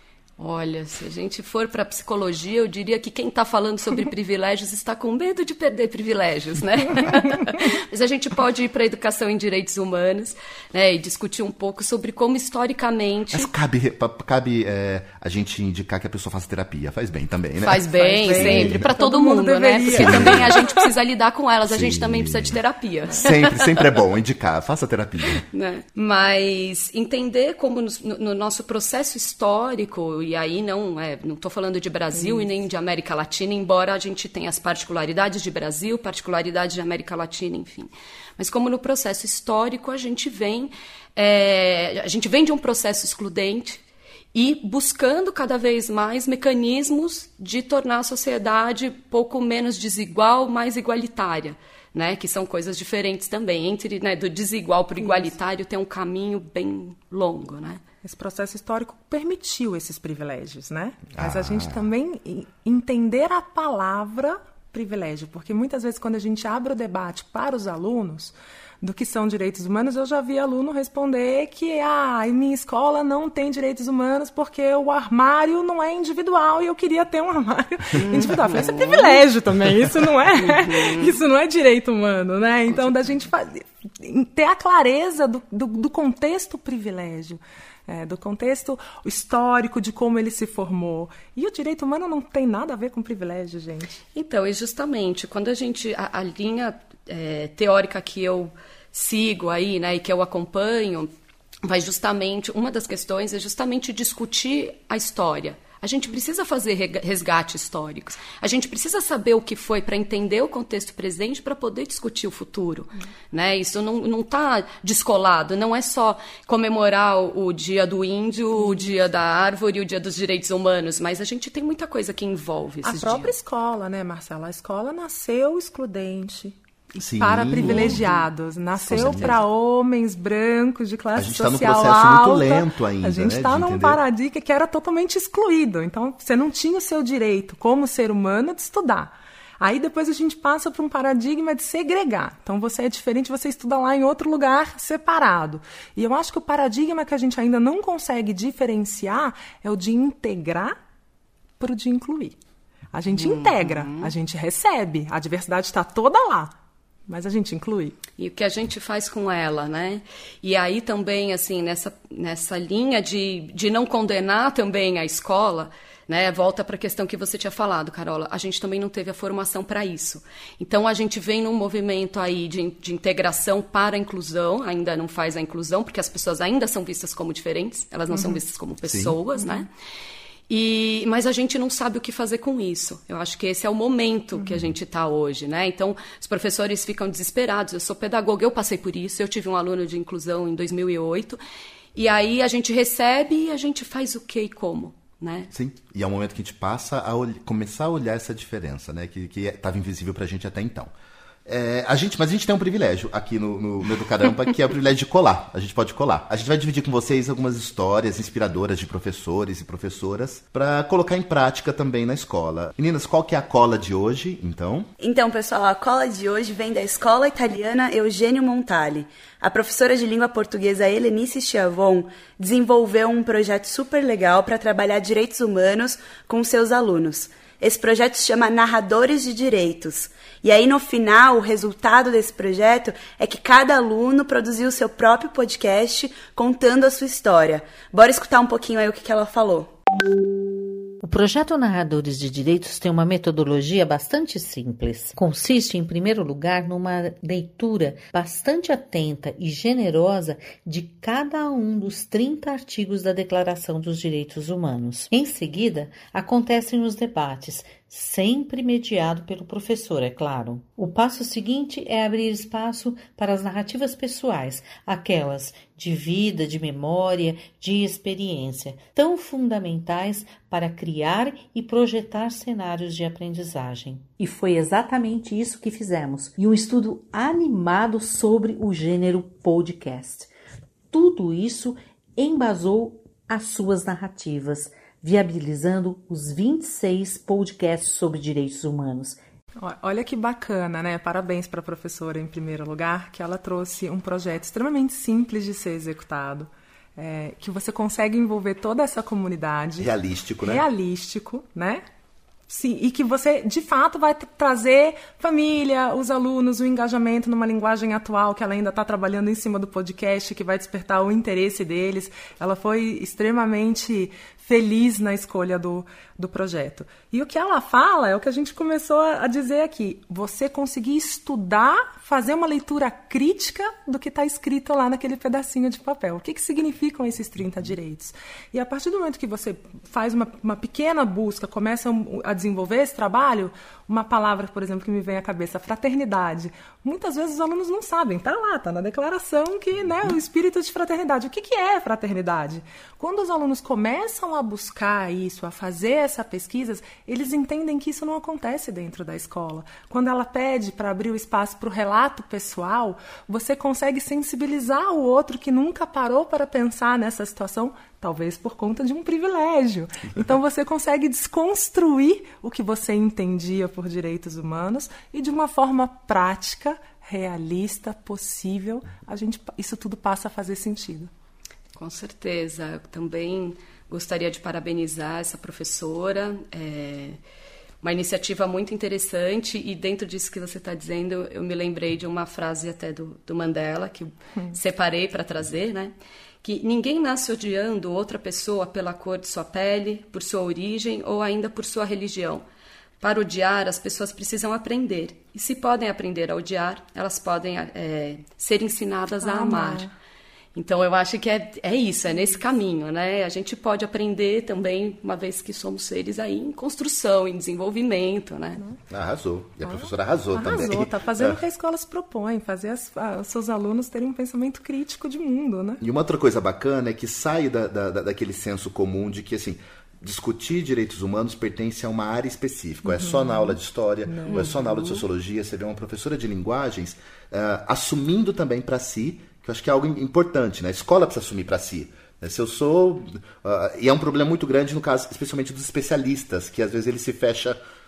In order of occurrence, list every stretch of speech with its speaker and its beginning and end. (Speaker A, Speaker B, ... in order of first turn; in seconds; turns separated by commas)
Speaker A: 0.4-13.5, Speaker B: 13.3-17.8, Speaker A: 17.6-23.9, Speaker C: 17.9-20.9, Speaker B: 18.3-18.9, Speaker B: 19.9-20.6, Speaker B: 21.7-22.6, Speaker B: 23.2-25.4, Speaker A: 25.4-43.8, Speaker A: 44.3-57.8, Speaker C: 55.0-55.3, Speaker C: 58.0-93.9, Speaker B: 61.1-61.8, Speaker A: 78.0-79.2, Speaker A: 80.4-81.2, Speaker A: 82.7-83.0, Speaker A: 94.1-101.1, Speaker A: 101.6-123.3, Speaker C: 122.8-126.6, Speaker B: 127.0-128.0, Speaker C: 127.2-150.8, Speaker A: 127.6-128.2, Speaker B: 128.8-129.4, Speaker A: 128.9-129.4, Speaker B: 131.2-134.0, Speaker C: 151.6-152.4, Speaker C: 152.9-156.5, Speaker A: 153.1-154.1, Speaker C: 157.1-158.0, Speaker A: 158.2-179.7, Speaker C: 178.1-178.4, Speaker B: 178.9-179.2, Speaker C: 179.4-179.7, Speaker A: 180.5-191.4, Speaker A: 191.9-195.5, Speaker B: 195.5-200.9, Speaker B: 201.5-214.9, Speaker D: 215.0-239.7, Speaker E: 241.0-280.3, Speaker E: 280.9-289.2, Speaker C: 289.6-299.9, Speaker B: 299.8-300.6, Speaker C: 300.4-301.8, Speaker C: 302.5-371.1, Speaker A: 371.8-377.2, Speaker A: 377.8-392.4, Speaker A: 393.0-399.9, Speaker C: 399.2-399.9, Speaker A: 400.6-408.6, Speaker B: 408.9-411.4, Speaker C: 409.7-415.8, Speaker B: 415.8-437.6, Speaker C: 422.9-424.6, Speaker A: 424.3-425.1